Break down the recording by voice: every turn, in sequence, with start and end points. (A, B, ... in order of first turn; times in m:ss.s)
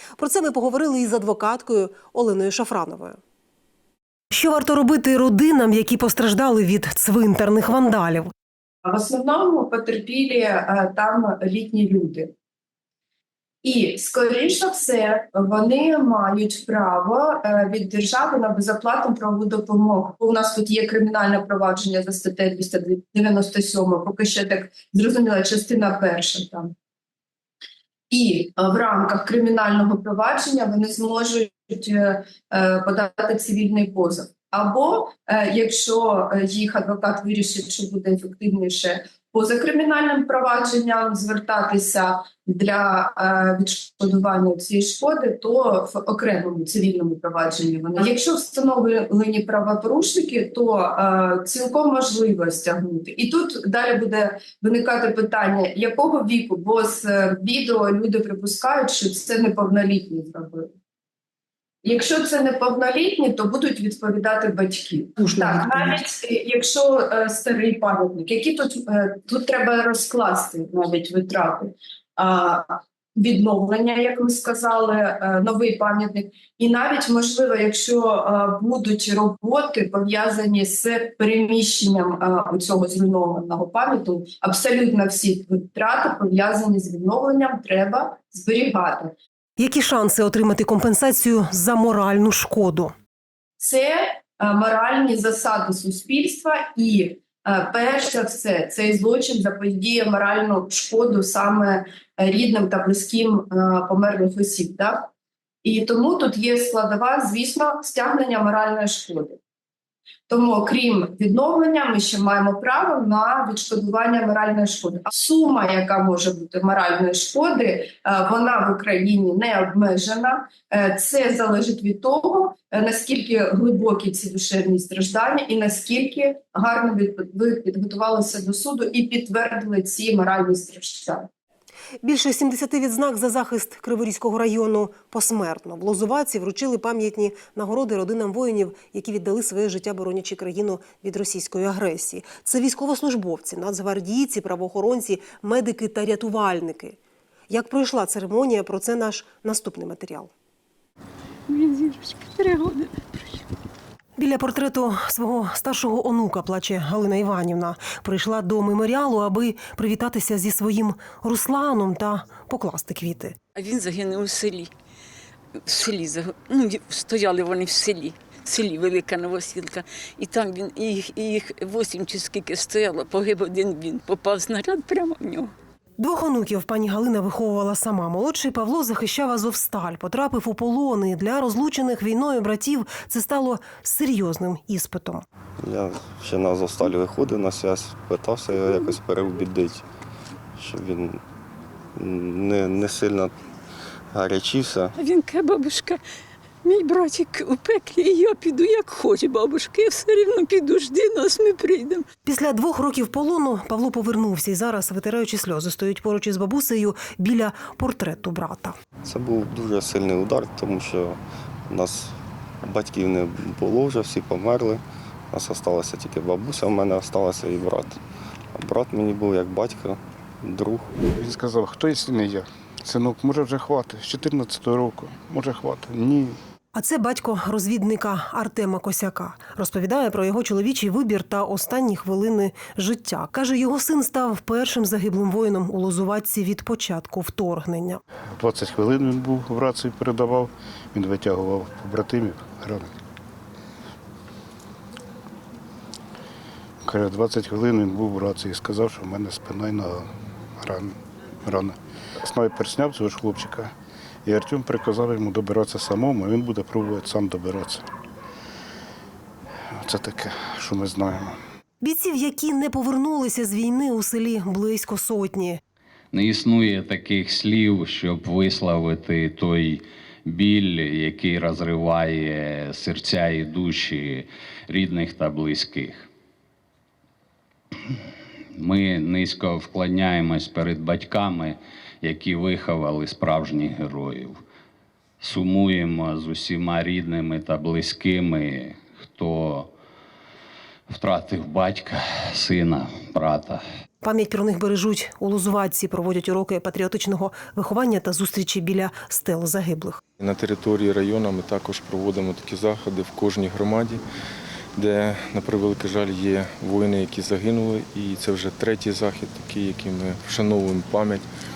0:00.2-0:03.2 A
0:04.3-0:08.3 A
0:08.8-0:12.3 B
0:13.6-0:26.7 B
0:28.1-1:00.7 B
1:01.8-1:29.2 B
1:29.6-1:32.9 A
1:33.6-1:45.1 B
1:45.6-1:49.4 B
1:50.3-2:11.3 B
2:12.0-2:27.0 A
2:27.5-2:30.3 A
2:31.5-2:33.4 C
2:34.2-2:43.4 A
2:43.6-2:44.7 C
2:45.6-2:55.5 C
2:56.0-3:05.3 A
3:05.6-3:09.8 D
3:10.6-3:11.2 D
3:12.0-3:13.3 D
3:14.1-3:15.0 D
3:15.0-3:16.0 C
3:16.6-3:22.1 C
3:22.2-3:28.8 A
3:29.0-3:31.2 D
3:31.7-3:32.1 D
3:32.6-3:38.0 D
3:38.6-3:40.9 D
3:41.2-3:46.4 E
3:46.8-3:58.0 A
3:58.4-4:02.9 E
4:06.8-4:11.0 E
4:11.5-4:13.7 E
4:14.3-4:17.8 E
4:19.8-4:21.4 E
4:21.8-4:25.6 A
4:26.1-4:36.1 F
4:38.6-4:44.4 F
4:45.2-4:49.7 F
4:50.9-4:53.6 F
4:54.0-5:00.0 A
5:00.2-5:04.0 G
5:04.8-5:11.3 G